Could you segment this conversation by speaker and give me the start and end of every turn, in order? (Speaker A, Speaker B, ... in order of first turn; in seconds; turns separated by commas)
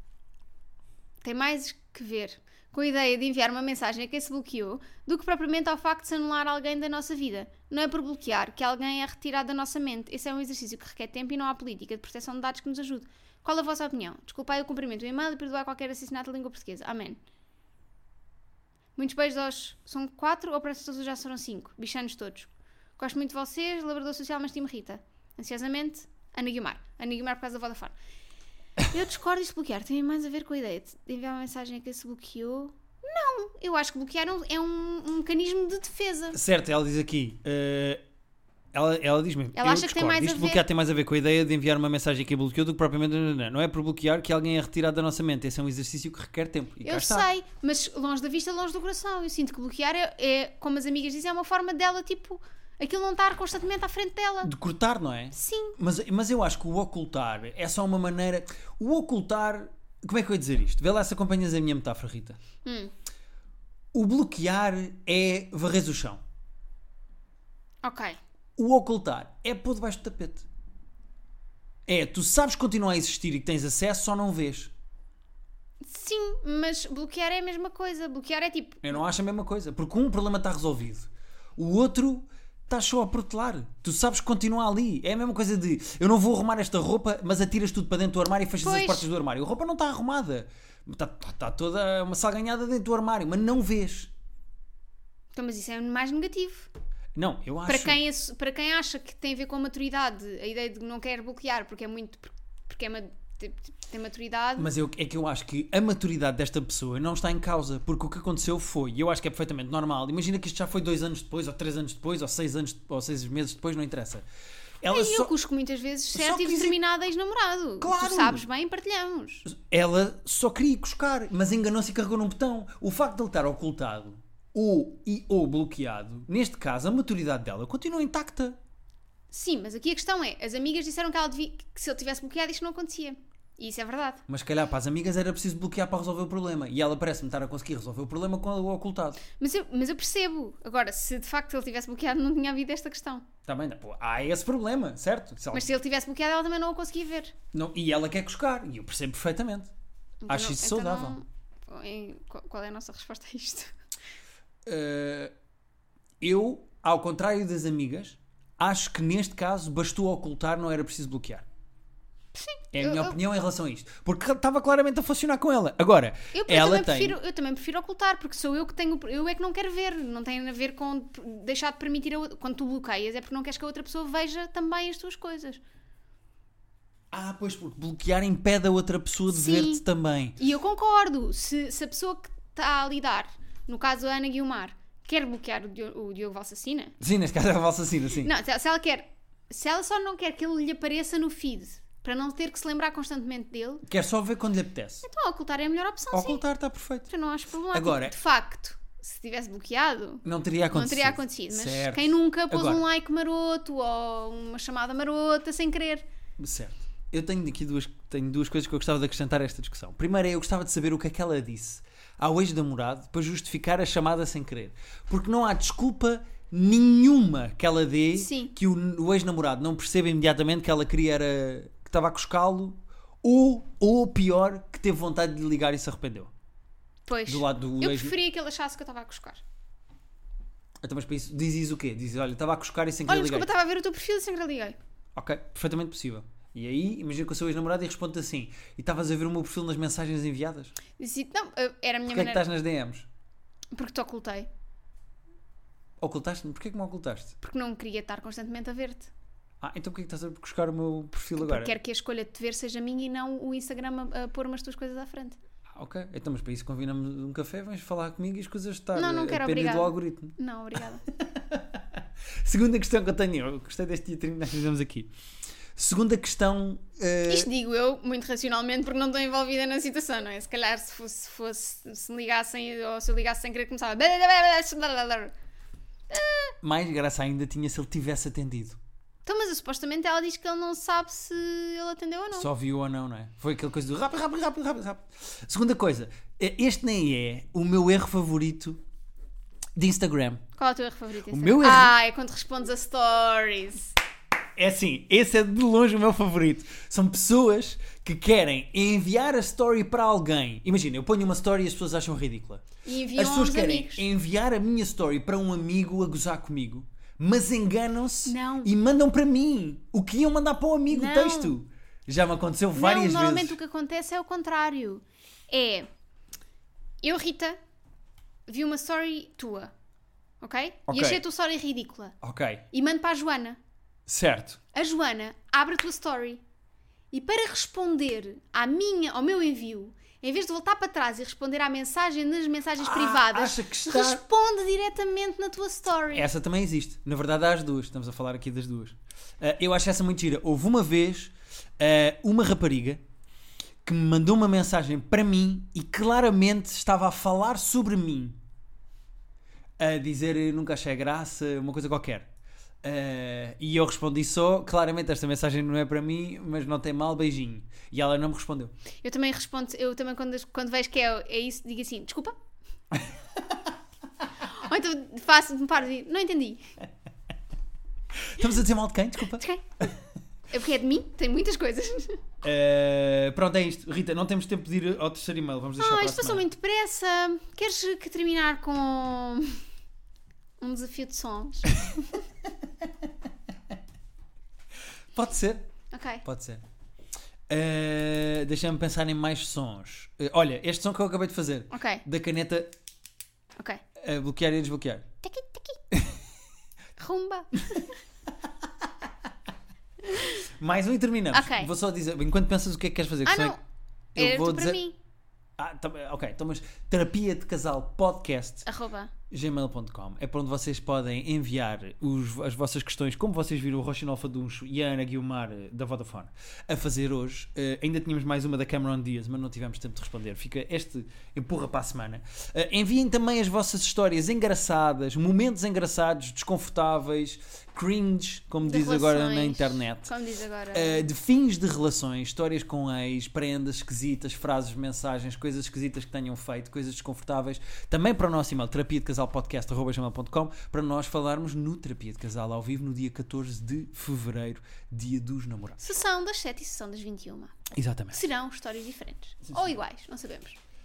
Speaker A: 1.2-17.2, Speaker A: 18.9-27.9, Speaker A: 28.9-36.4, Speaker B: 36.3-38.0, Speaker B: 38.7-47.3, Speaker A: 39.5-40.6, Speaker A: 46.8-54.5, Speaker B: 54.4-62.4, Speaker A: 55.3-55.8, Speaker A: 62.6-62.9, Speaker B: 63.9-66.2, Speaker A: 67.8-68.2, Speaker B: 68.6-70.5, Speaker B: 71.9-74.7, Speaker A: 75.8-79.0, Speaker B: 78.8-94.1, Speaker A: 88.6-89.1, Speaker A: 95.3-96.7, Speaker B: 97.2-98.0, Speaker A: 97.7-104.7, Speaker B: 104.6-114.2, Speaker B: 114.8-115.3, Speaker A: 114.9-119.5, Speaker B: 116.1-116.8, Speaker B: 117.8-118.4, Speaker B: 119.4-128.6, Speaker A: 129.3-134.2, Speaker B: 134.3-139.2, Speaker A: 139.4-143.3, Speaker B: 143.4-145.7, Speaker A: 145.5-147.3, Speaker B: 147.5-149.7, Speaker A: 150.2-153.7, Speaker B: 150.3-151.2, Speaker B: 154.6-155.3, Speaker B: 156.2-161.4, Speaker A: 162.3-163.2, Speaker B: 162.7-167.2, Speaker A: 166.3-175.6, Speaker B: 177.1-180.4, Speaker A: 179.3-179.8, Speaker A: 180.4-186.9, Speaker B: 187.0-188.3, Speaker A: 188.2-193.8, Speaker B: 193.8-195.1, Speaker A: 195.0-196.4, Speaker B: 196.1-197.1, Speaker A: 197.1-206.1, Speaker B: 197.7-198.2, Speaker B: 200.2-202.8, Speaker B: 206.4-226.3, Speaker A: 218.2-218.5, Speaker A: 227.1-229.4, Speaker B: 227.3-228.2, Speaker B: 230.8-233.5, Speaker A: 233.1-234.8, Speaker B: 235.1-240.8, Speaker A: 241.0-242.4, Speaker B: 242.1-243.1, Speaker A: 243.7-244.5, Speaker B: 246.0-247.3, Speaker A: 247.4-249.1, Speaker B: 249.6-251.7, Speaker A: 251.4-255.4, Speaker B: 255.8-260.4, Speaker A: 258.9-261.0, Speaker B: 261.1-265.1, Speaker B: 265.8-267.5, Speaker A: 267.3-275.3, Speaker A: 276.1-276.6, Speaker B: 276.6-278.8, Speaker A: 279.3-282.5, Speaker B: 282.3-288.8, Speaker B: 289.8-290.4, Speaker A: 290.6-293.9, Speaker B: 291.3-291.9, Speaker B: 294.6-313.6, Speaker A: 302.9-304.1, Speaker A: 308.3-308.7, Speaker A: 310.9-311.6, Speaker A: 312.8-315.9, Speaker A: 317.0-317.6, Speaker A: 318.5-319.7, Speaker A: 320.4-322.1, Speaker B: 320.9-321.2, Speaker B: 322.2-322.6, Speaker A: 322.7-323.6, Speaker B: 324.1-324.6, Speaker A: 324.7-326.4, Speaker A: 327.1-336.3, Speaker B: 332.8-334.2, Speaker B: 336.1-343.0, Speaker B: 343.8-348.4, Speaker B: 349.8-352.3, Speaker B: 352.8-358.7, Speaker A: 359.0-362.4, Speaker A: 364.4-366.6, Speaker B: 368.2-369.9, Speaker A: 369.4-369.9, Speaker A: 370.5-372.1, Speaker B: 372.4-376.4, Speaker A: 375.8-379.6, Speaker A: 380.6-382.2, Speaker B: 385.1-385.7, Speaker A: 385.9-386.2, Speaker B: 386.2-386.6, Speaker B: 387.5-392.7, Speaker A: 391.7-392.0, Speaker B: 394.0-395.1, Speaker A: 395.2-395.8, Speaker B: 395.9-396.2, Speaker A: 397.0-397.9, Speaker A: 400.1-400.4, Speaker B: 400.5-403.6, Speaker A: 401.3-401.7, Speaker A: 403.2-403.6, Speaker B: 404.1-404.8, Speaker A: 404.1-404.9, Speaker B: 405.6-408.6, Speaker A: 408.6-409.1, Speaker B: 409.3-430.1, Speaker A: 428.6-431.1, Speaker B: 430.7-446.0, Speaker A: 445.8-447.6, Speaker B: 447.7-448.2, Speaker A: 448.1-450.6, Speaker B: 449.5-449.7